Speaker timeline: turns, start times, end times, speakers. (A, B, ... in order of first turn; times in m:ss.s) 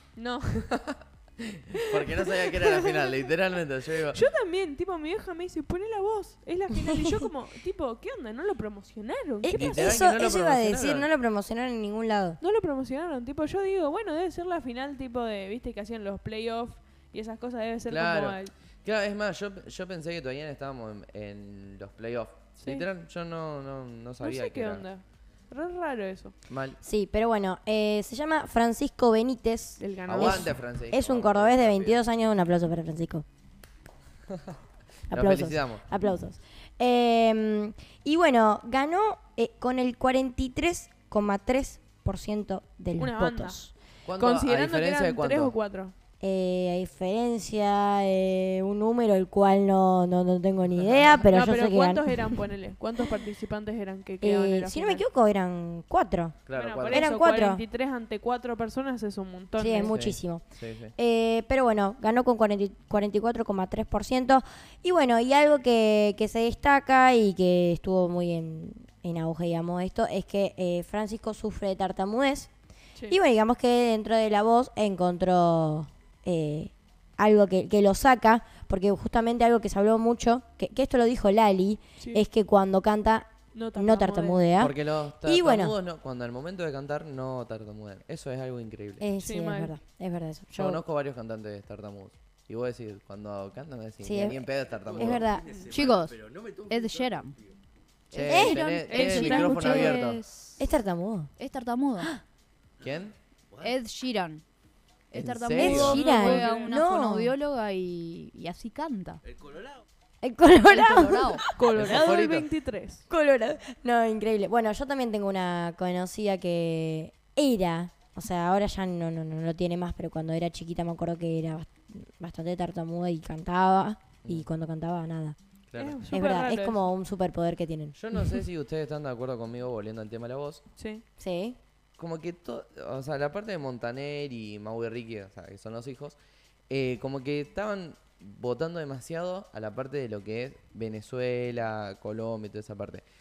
0:00.2-0:00.7 A
0:00.6-0:04.2 B
0:01.8-0:03.1 A
0:04.1-0:09.8 A
0:09.4-0:12.4 C
0:09.5-0:11.1 B
0:12.4-0:18.5 A
0:17.9-0:24.8 B
0:24.2-0:26.3 A
0:26.5-0:26.8 B
0:26.8-0:33.2 C
0:29.8-0:30.5 A
0:30.1-0:32.0 B
0:35.1-0:43.7 C
0:35.1-0:35.8 B
0:43.0-0:43.6 A
0:44.0-0:45.5 B
0:44.2-0:45.9 A
0:46.2-0:52.4 C
0:50.8-0:51.2 B
0:51.3-0:55.0 A
0:54.2-0:57.6 C
0:56.5-0:57.1 B
0:56.5-0:59.9 A
0:59.6-1:00.4 C
0:59.8-1:00.9 B
1:01.0-1:12.5 C
1:13.1-1:25.7 C
1:22.0-1:22.2 A
1:23.5-1:24.5 A
1:24.6-1:29.0 B
1:29.0-1:30.8 C
1:29.2-1:29.7 A
1:30.5-1:35.2 B
1:34.0-1:36.2 C
1:35.7-1:37.4 D
1:38.1-1:40.2 B
1:38.1-1:39.0 C
1:38.3-1:39.9 A
1:38.9-1:40.6 D
1:40.6-1:41.3 C
1:41.4-1:42.1 D
1:42.8-1:43.1 B
1:43.6-1:44.4 D
1:45.1-1:49.2 D
1:45.1-1:46.0 B
1:45.6-1:47.3 C
1:45.7-1:46.8 A
1:50.2-1:52.0 C
1:50.7-1:51.4 D
1:51.5-1:53.0 A
1:51.7-1:52.5 B
1:53.1-2:05.4 C
2:05.7-2:06.0 B
2:05.8-2:06.8 A
2:06.1-2:08.0 C
2:07.9-2:10.6 B
2:10.8-2:11.0 A
2:11.2-2:11.6 C
2:12.0-2:16.2 B
2:16.7-2:23.0 B